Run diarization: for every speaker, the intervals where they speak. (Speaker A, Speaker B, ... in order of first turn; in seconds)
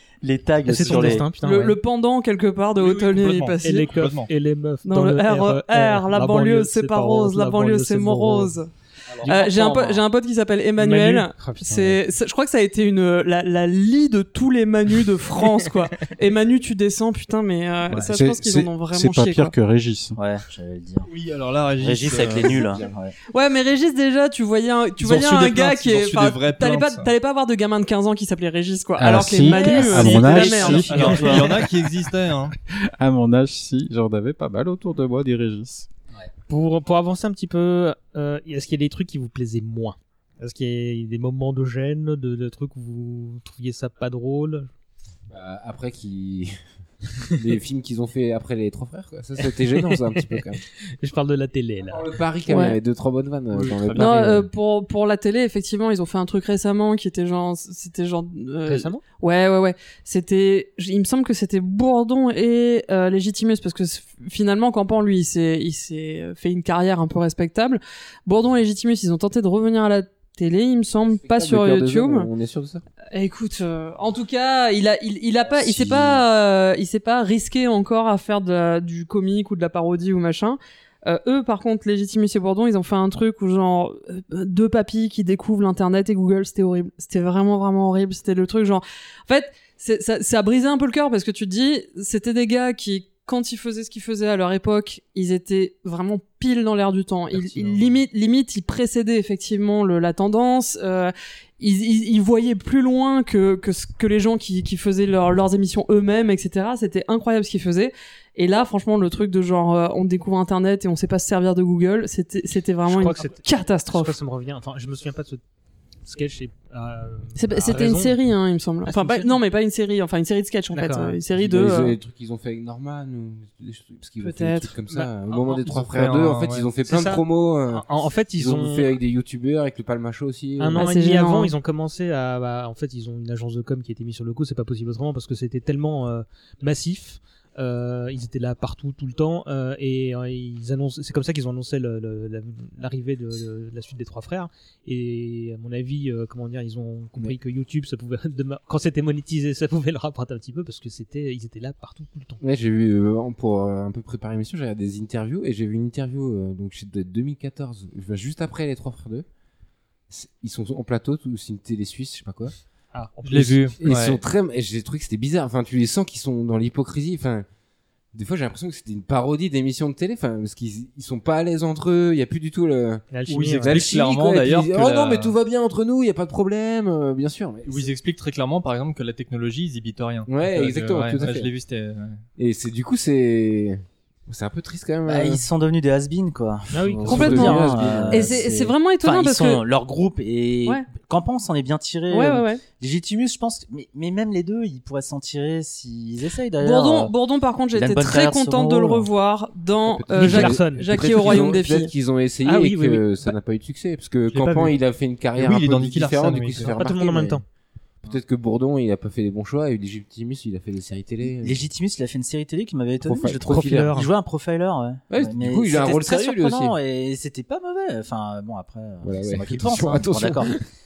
Speaker A: 0.2-1.3, 9.1-10.0, 20.1-21.1, 21.8-23.1, 29.7-31.2, 185.1-188.5, 189.0-197.1, 197.7-199.1, 211.3-220.5
Speaker B: 0.6-1.8, 3.6-8.6, 10.8-11.9, 36.5-44.7, 49.4-50.4, 51.0-52.0, 58.6-59.0, 97.3-98.0, 112.8-115.4, 116.0-118.1, 118.8-119.3, 120.7-121.2, 124.9-125.8, 126.8-129.0, 130.6-152.4, 162.9-163.7, 173.1-173.8, 181.2-181.4, 186.7-187.7, 200.1-201.4, 202.4-203.3, 206.7-207.4, 213.5-214.1
Speaker C: 0.8-3.9, 4.8-8.7, 9.2-19.5, 23.3-31.5, 52.5-52.8, 54.0-72.3, 73.1-114.2, 117.3-122.0, 124.2-124.7, 130.7-131.5, 187.1-189.6, 192.1-192.6, 196.6-201.9
Speaker D: 2.8-4.3, 21.1-22.7, 25.0-27.1, 29.8-32.5, 53.5-54.1, 125.7-126.7, 163.3-164.2, 173.3-175.3, 177.7-182.2, 204.3-204.7, 205.3-206.8
Speaker E: 18.1-20.2, 29.0-31.7, 32.9-35.9
Speaker F: 22.6-22.9, 45.3-46.5, 47.3-50.6, 51.9-54.5, 71.2-72.8, 75.6-76.2, 121.3-127.8, 128.3-130.9, 152.4-159.2, 160.1-162.5, 163.8-167.4, 168.1-177.9, 180.2-181.5, 182.4-185.4, 186.8-188.7, 199.8-207.4, 208.0-211.6, 213.0-213.9, 215.1-216.8, 219.0-220.6